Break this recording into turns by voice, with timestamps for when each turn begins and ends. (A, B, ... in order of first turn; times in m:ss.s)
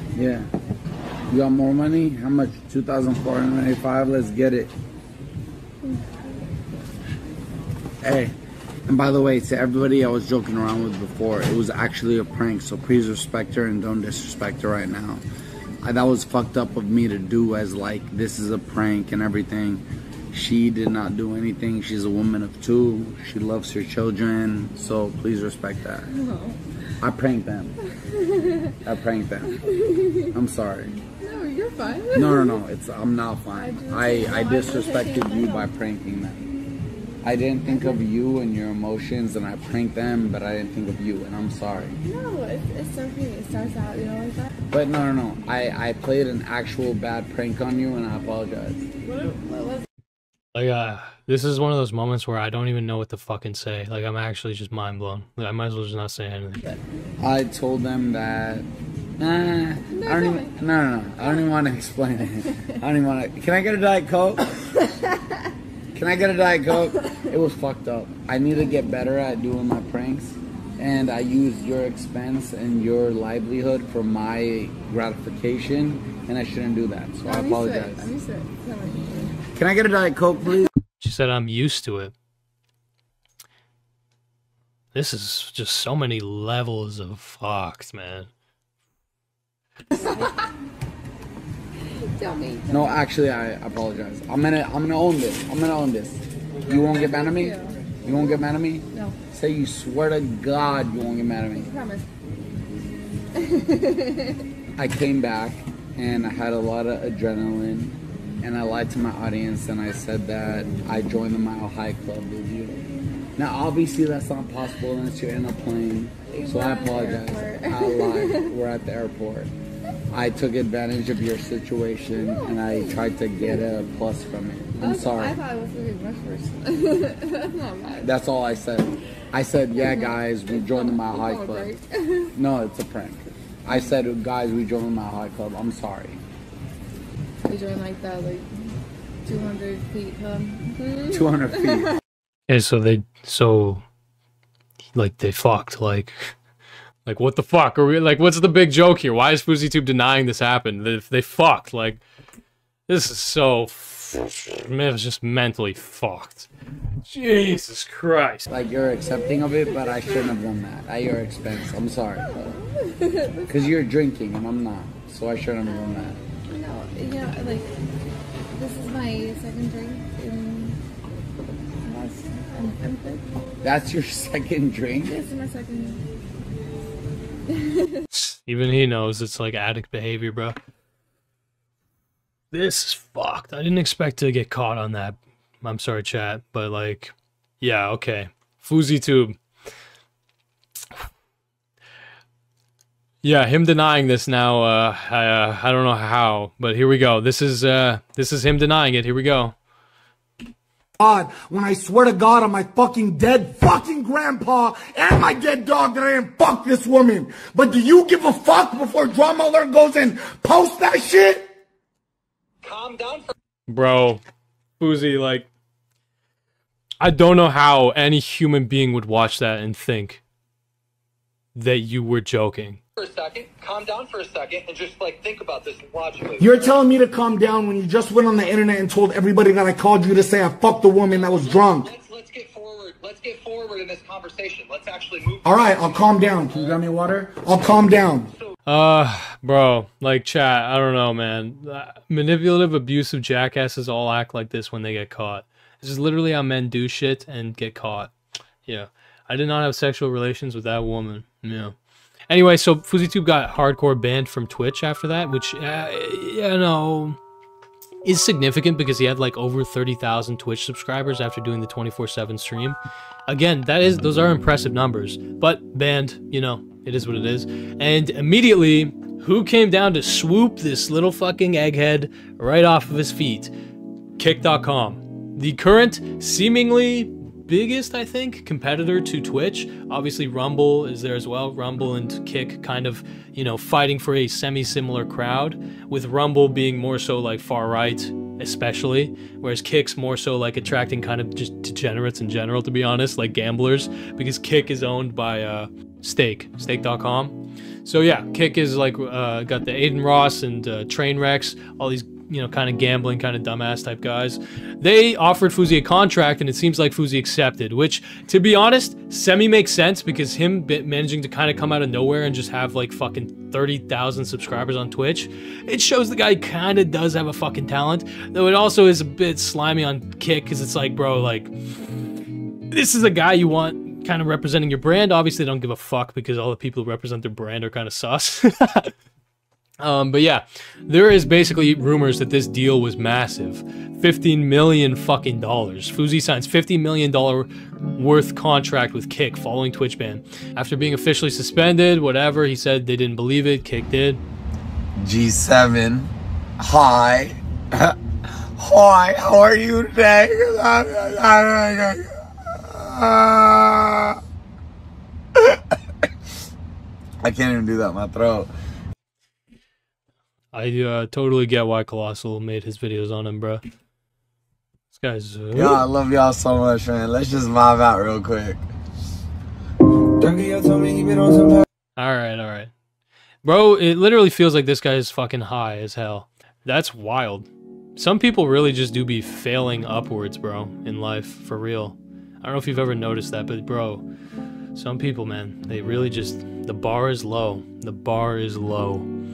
0:00.2-0:00.5 A
0:01.3-0:04.7 A
0:05.8-0:06.3 B
0:08.0-0:08.3 A
0:08.9-0:15.2 A
0:15.8-0:26.1 A
0:26.1-0:26.6 B
0:27.0-0:27.8 A
0:28.1-0:28.8 B
0:28.8-0:29.6 A
0:29.6-0:30.2 B
0:30.3-0:31.0 A
0:31.2-0:32.6 B
0:32.1-0:36.5 A
0:33.5-0:35.7 B
0:37.2-0:42.0 A
0:37.7-0:38.0 B
0:42.0-0:44.5 B
0:44.7-0:48.8 A
0:49.0-0:49.9 B
0:50.5-0:56.8 C
0:57.2-0:58.7 A
0:59.2-1:04.4 A
0:59.9-1:00.6 B
1:05.9-1:18.1 A
1:17.2-1:19.4 B
1:19.6-1:20.7 A
1:21.0-1:22.1 C
1:24.9-1:28.3 C
1:29.9-1:30.5 B
1:32.2-1:33.0 B
1:32.7-1:41.7 A
1:36.9-1:38.4 B
1:41.5-1:42.0 B
1:43.4-1:44.4 B
1:44.8-1:52.8 A
1:53.4-1:59.5 A
1:56.3-1:58.5 B
2:00.1-2:05.4 A
2:02.2-2:03.0 B
2:04.8-2:08.1 B
2:08.0-2:11.7 A
2:09.8-2:12.3 B
2:12.4-2:16.2 A
2:17.5-2:18.5 B
2:19.2-2:21.8 B
2:21.1-2:21.9 A
2:22.5-2:23.8 C
2:25.0-2:26.3 C
2:27.1-2:32.0 C
2:32.9-2:36.5 C
2:37.0-2:38.5 C
2:38.5-2:42.5 A
2:42.4-2:43.8 B
2:43.5-2:46.2 A
2:46.5-2:47.7 B
2:48.6-2:50.8 B
2:51.8-2:53.2 B
2:53.6-2:55.2 A
2:55.0-2:56.0 B
2:57.5-2:58.0 B
2:58.1-3:00.6 C
3:02.5-3:09.4 C
3:13.2-3:19.5 C
3:21.0-3:31.5 D
3:32.6-3:33.3 E
3:33.7-3:34.2 C
3:34.8-3:35.5 C
3:37.0-3:40.2 C
3:41.6-3:42.8 C
3:43.0-3:46.4 E
3:46.4-3:51.9 D
3:51.9-3:55.4 E
3:55.4-3:58.3 D
3:56.8-3:57.4 A
3:58.7-4:08.1 C
4:08.7-4:11.8 C
4:12.3-4:17.2 C
4:18.0-4:22.8 C
4:23.3-4:33.5 C
4:34.2-5:21.5 C
5:22.7-5:28.9 C
5:29.8-5:44.2 C
5:45.0-5:48.0 A
5:48.6-5:54.2 A
5:57.2-5:58.5 A
6:00.5-6:03.6 C
6:04.9-6:05.8 C
6:05.5-6:08.7 A
6:10.2-6:11.6 A
6:12.0-6:12.7 C
6:13.4-6:24.0 C
6:24.8-6:29.1 C